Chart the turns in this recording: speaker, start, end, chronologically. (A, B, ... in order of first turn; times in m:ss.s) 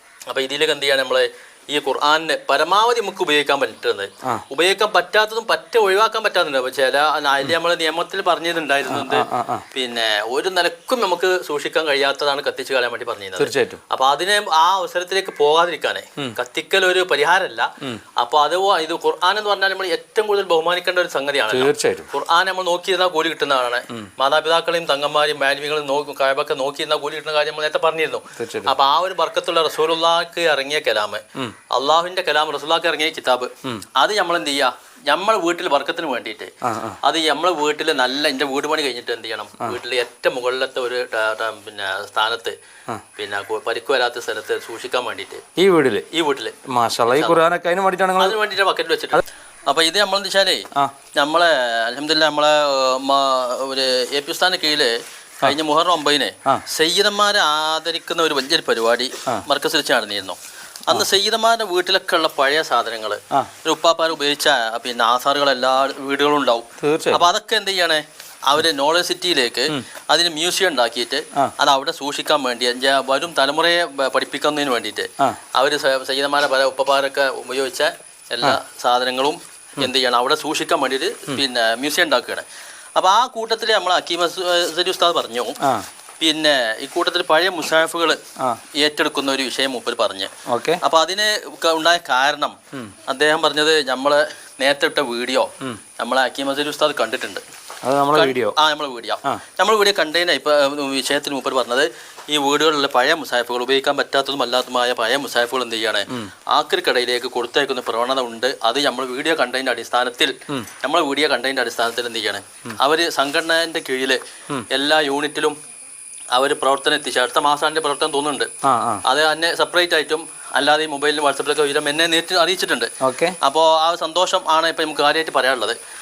0:00.3-0:42.6 A
0:08.9-0:09.6 B
0:13.4-0:13.8 B
0:21.5-0:22.1 B
0:28.4-0:28.7 B
0:36.6-0:37.0 B
0:43.2-0:45.4 A
0:45.6-0:46.1 B
0:46.1-0:47.4 A
0:46.7-0:48.4 B
0:48.2-1:00.4 A
1:00.9-1:22.4 A
1:06.8-1:07.3 B
1:23.0-1:25.6 A
1:25.6-1:25.9 B
1:26.2-1:28.2 A
1:28.7-1:37.4 A
1:30.5-1:30.8 B
1:37.8-1:38.6 B
1:38.1-1:54.2 A
1:54.7-1:55.6 A
1:56.3-1:58.5 A
1:58.6-1:59.0 B
1:59.0-2:05.8 A
2:03.0-2:03.4 B